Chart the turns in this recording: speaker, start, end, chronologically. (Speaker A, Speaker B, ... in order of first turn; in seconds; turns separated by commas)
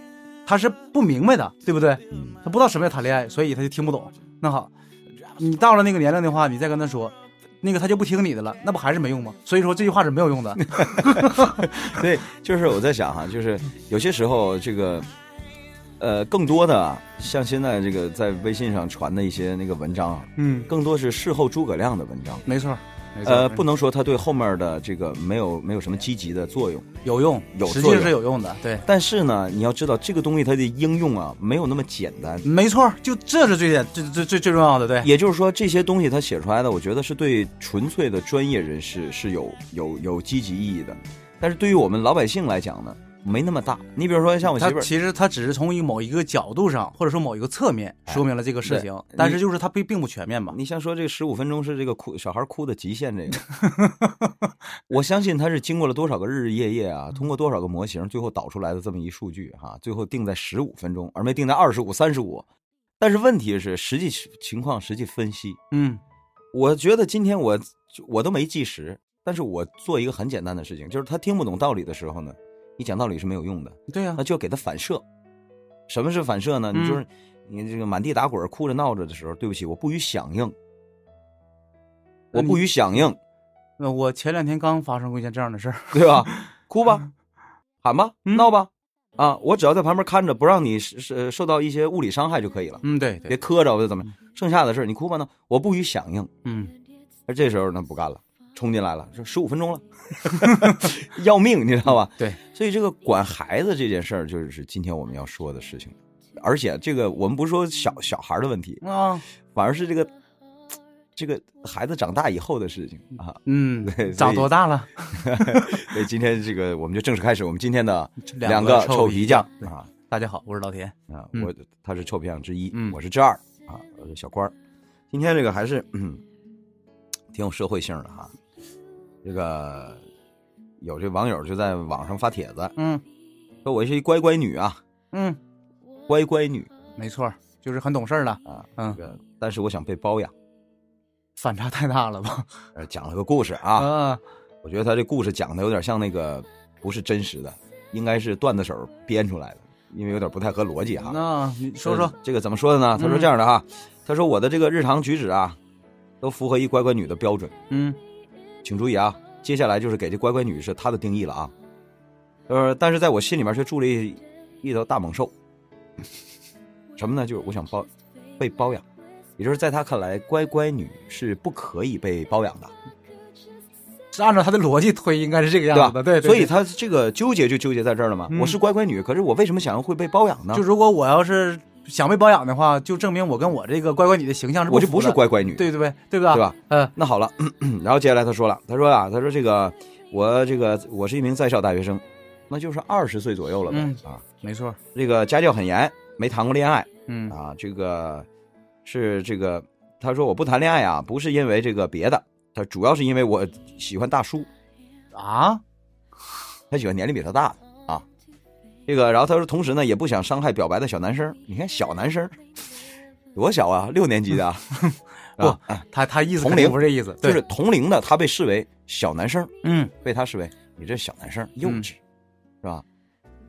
Speaker A: 0.5-4.7, Speaker B: 2.1-2.4, Speaker A: 5.4-11.8, Speaker B: 10.6-15.1, Speaker B: 16.0-22.4, Speaker A: 20.4-20.7, Speaker A: 22.4-23.6, Speaker B: 23.2-26.9, Speaker A: 27.0-28.9, Speaker B: 27.5-28.2, Speaker B: 28.9-32.5, Speaker A: 32.4-35.1, Speaker B: 35.0-44.9, Speaker A: 44.4-50.5, Speaker B: 48.1-49.4, Speaker B: 50.5-53.4, Speaker A: 53.5-54.3, Speaker B: 54.9-62.5, Speaker B: 63.0-65.6, Speaker A: 65.7-66.0, Speaker B: 66.5-75.0, Speaker A: 73.9-74.2, Speaker B: 75.9-80.5, Speaker A: 76.7-77.0, Speaker B: 82.3-83.2, Speaker A: 82.3-82.6, Speaker A: 83.8-86.5, Speaker B: 85.9-87.1, Speaker B: 87.8-96.3, Speaker A: 92.8-93.4, Speaker A: 96.4-96.7, Speaker B: 97.3-108.8, Speaker A: 100.4-100.8, Speaker A: 108.8-109.2, Speaker B: 109.5-110.1, Speaker B: 111.1-114.5, Speaker A: 113.4-115.9, Speaker B: 115.2-119.9, Speaker A: 118.2-121.5, Speaker B: 121.1-124.5, Speaker B: 125.1-126.2, Speaker B: 127.3-128.3, Speaker B: 129.2-130.0, Speaker B: 130.8-132.7, Speaker A: 132.8-133.0, Speaker B: 133.6-134.8, Speaker A: 135.1-135.4, Speaker B: 136.1-136.7, Speaker A: 137.0-139.0, Speaker B: 138.5-140.3, Speaker A: 141.3-142.5, Speaker B: 142.8-143.9, Speaker A: 143.8-144.2, Speaker B: 144.6-151.2, Speaker A: 151.0-152.1, Speaker B: 151.8-155.6, Speaker A: 153.0-153.3, Speaker B: 156.2-157.5, Speaker A: 157.7-158.0, Speaker B: 158.6-161.5, Speaker B: 162.5-165.3, Speaker B: 166.9-168.8, Speaker B: 169.4-172.7, Speaker A: 174.1-176.5, Speaker B: 175.7-180.6, Speaker A: 178.3-178.6, Speaker A: 180.5-186.9, Speaker B: 184.7-185.7, Speaker B: 186.3-194.2, Speaker A: 193.7-194.8, Speaker B: 194.9-198.3, Speaker A: 197.1-197.3, Speaker B: 198.8-204.5, Speaker A: 205.1-205.6, Speaker B: 206.7-208.1, Speaker B: 208.9-212.4, Speaker B: 213.3-214.8, Speaker A: 214.7-217.4, Speaker B: 215.4-222.0, Speaker A: 219.6-219.9